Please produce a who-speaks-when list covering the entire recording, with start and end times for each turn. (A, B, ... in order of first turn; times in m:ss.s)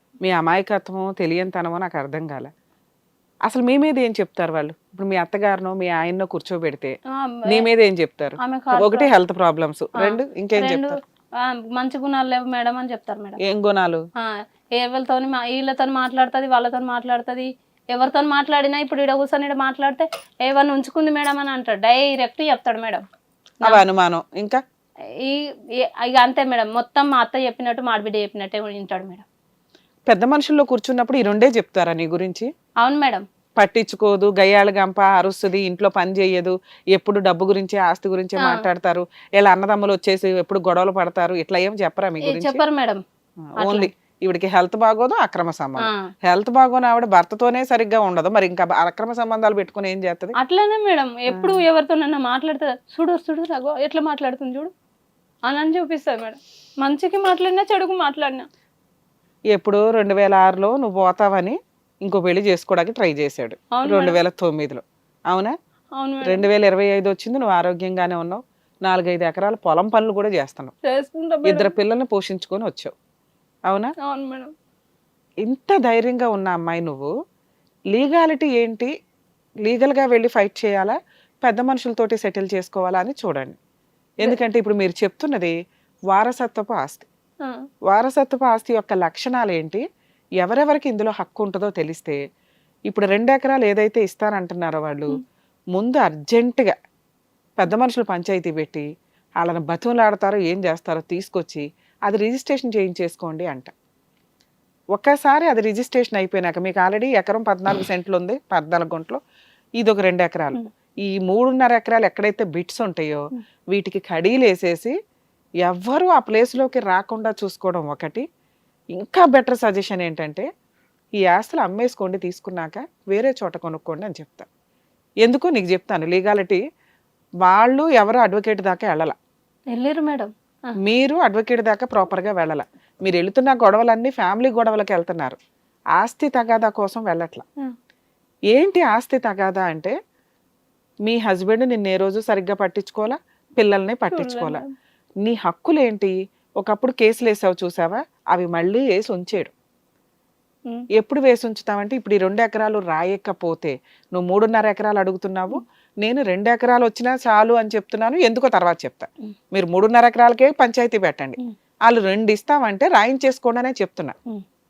0:00.2-0:02.5 A
0:03.5-0:06.9 A
0:07.2-0:07.6 B
0:07.5-0:11.0 A
0:08.4-0:09.1 B
0:10.0-0:13.4 B
0:13.4-0:14.0 A
0:14.2-0:23.0 B
0:23.6-0:24.6 A
0:26.0-0:29.2 B
0:30.1-0:32.5 A
0:32.8-0:33.2 B
0:33.6-0:42.6 A
0:42.2-0:43.0 B
0:43.4-0:50.4 A
0:50.4-0:54.7 B
0:51.3-0:51.6 A
0:55.5-0:58.4 B
0:59.5-1:05.5 A
1:03.7-1:04.2 B
1:06.0-1:06.4 B
1:06.2-1:10.7 A
1:10.9-1:11.7 B
1:11.4-1:12.9 A
1:14.0-1:14.5 B
1:15.4-1:17.1 A
1:17.9-1:18.9 A
1:19.6-1:23.6 A
1:24.2-1:25.5 A
1:26.1-1:27.1 A
1:27.9-1:29.8 A
1:30.4-1:32.2 A
1:32.9-1:35.2 A
1:35.7-1:36.7 A
1:37.6-1:38.9 A
1:39.4-1:43.7 A
1:44.9-1:49.2 A
1:49.8-1:53.2 A
1:53.7-1:54.9 A
1:55.6-1:58.2 A
1:59.0-2:00.4 A
2:01.2-2:04.5 A
2:05.2-2:06.6 A
2:07.4-2:09.2 A
2:09.7-2:10.8 B
2:10.8-2:15.4 A
2:16.0-2:17.4 A
2:18.5-2:19.9 A
2:21.1-2:24.6 A
2:24.1-2:24.7 B
2:25.2-2:29.5 A
2:31.0-2:44.1 A